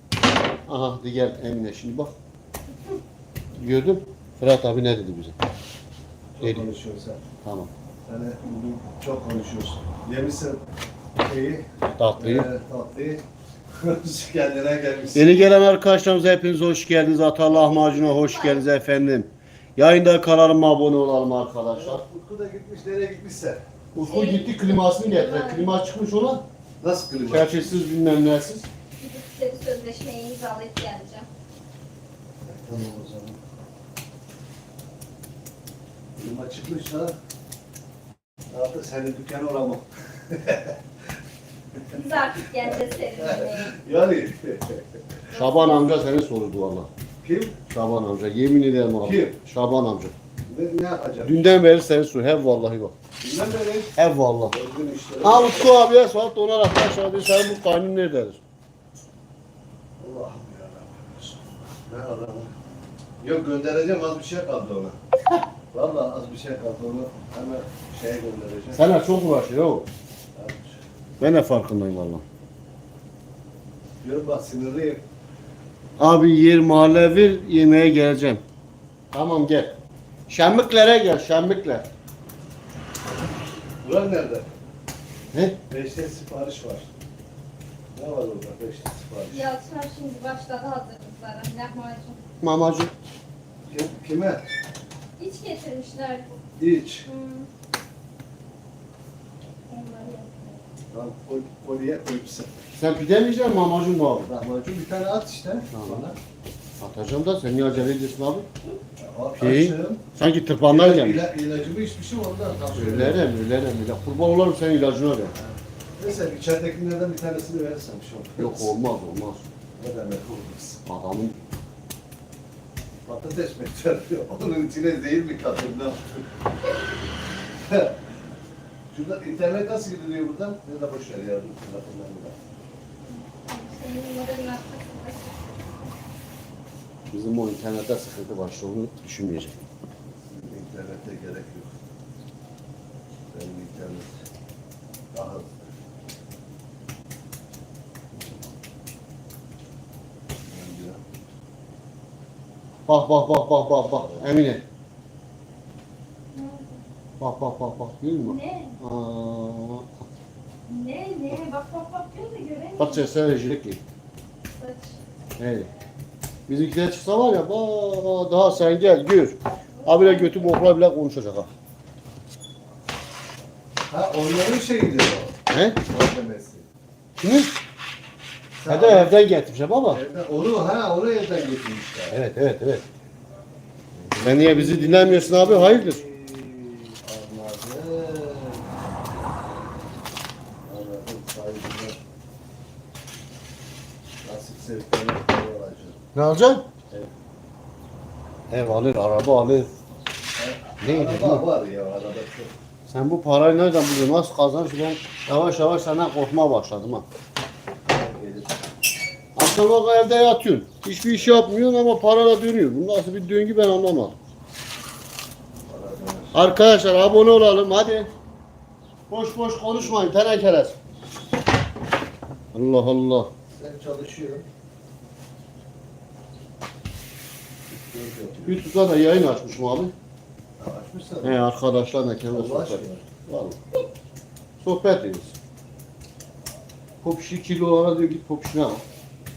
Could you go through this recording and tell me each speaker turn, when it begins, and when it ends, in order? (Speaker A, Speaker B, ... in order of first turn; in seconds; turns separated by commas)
Speaker A: 0.7-2.1, Speaker A: 3.6-5.3, Speaker B: 6.4-7.2, Speaker A: 6.4-6.7, Speaker A: 7.4-7.7, Speaker B: 8.1-10.6, Speaker B: 11.2-13.2, Speaker A: 11.8-12.5, Speaker B: 13.8-15.4, Speaker A: 15.1-22.0, Speaker C: 17.7-18.7, Speaker B: 21.7-23.6, Speaker A: 23.9-26.4, Speaker C: 24.0-25.8, Speaker B: 26.8-27.7, Speaker A: 27.2-28.7, Speaker C: 29.0-31.3, Speaker B: 32.5-33.4, Speaker B: 36.2-37.2, Speaker B: 38.5-40.8, Speaker C: 41.9-43.7, Speaker B: 42.6-45.0, Speaker A: 45.3-46.9, Speaker C: 45.3-45.9, Speaker B: 47.2-47.6, Speaker A: 47.7-50.1, Speaker B: 49.0-49.4, Speaker B: 50.5-51.4, Speaker A: 51.2-53.0, Speaker B: 53.2-53.9, Speaker A: 54.0-54.5, Speaker B: 54.5-55.7, Speaker A: 55.2-58.4, Speaker B: 60.0-62.5, Speaker B: 63.2-65.0, Speaker B: 65.7-68.8, Speaker A: 68.7-69.9, Speaker B: 70.3-70.8, Speaker A: 71.2-72.2, Speaker B: 74.0-75.0, Speaker A: 76.0-78.4, Speaker A: 79.1-81.9, Speaker B: 83.8-84.5, Speaker A: 85.3-85.6, Speaker B: 85.7-86.9, Speaker B: 87.9-89.5, Speaker C: 89.3-92.2, Speaker A: 92.4-92.9, Speaker B: 93.7-94.5, Speaker C: 95.2-96.3, Speaker B: 96.6-97.1, Speaker C: 97.0-97.5, Speaker C: 99.7-100.6, Speaker B: 100.9-102.5, Speaker A: 102.8-104.3, Speaker B: 104.3-106.2, Speaker A: 105.7-106.0, Speaker A: 106.8-108.5, Speaker B: 109.0-110.0, Speaker A: 109.4-111.2, Speaker B: 110.7-113.2, Speaker A: 112.7-115.3, Speaker B: 115.4-118.7, Speaker A: 118.4-119.5, Speaker B: 119.8-120.8, Speaker A: 120.8-121.5, Speaker B: 123.0-126.2, Speaker B: 127.6-128.0, Speaker B: 128.9-132.3, Speaker C: 133.1-135.6, Speaker A: 137.1-139.7, Speaker B: 140.2-141.7, Speaker B: 143.3-144.2, Speaker B: 145.1-145.7, Speaker B: 150.5-151.0, Speaker A: 152.9-154.6, Speaker B: 153.9-154.2, Speaker C: 156.3-156.8, Speaker A: 157.2-159.9, Speaker C: 158.2-158.8, Speaker C: 160.7-163.1, Speaker A: 162.8-163.8, Speaker C: 164.5-165.0, Speaker A: 165.4-165.7, Speaker A: 166.5-171.5, Speaker C: 169.8-170.6, Speaker B: 173.9-176.7, Speaker A: 175.5-175.8, Speaker A: 177.2-177.5, Speaker B: 178.6-179.2, Speaker A: 178.7-180.0, Speaker B: 179.9-182.2, Speaker A: 182.1-182.8, Speaker B: 184.0-188.7, Speaker A: 184.2-186.0, Speaker B: 190.6-192.0, Speaker B: 194.2-196.0, Speaker A: 196.1-196.6, Speaker A: 198.5-199.7, Speaker B: 200.4-202.5, Speaker A: 200.8-201.4, Speaker A: 202.9-207.1, Speaker B: 207.9-208.6, Speaker A: 209.3-214.2, Speaker B: 215.7-216.4, Speaker A: 216.3-218.1, Speaker A: 219.1-220.8, Speaker A: 222.5-223.3, Speaker B: 223.5-224.4, Speaker B: 227.9-228.6, Speaker A: 228.5-229.9, Speaker B: 230.6-231.5, Speaker A: 231.2-233.6, Speaker B: 232.3-233.0, Speaker A: 234.6-235.3, Speaker A: 237.0-238.8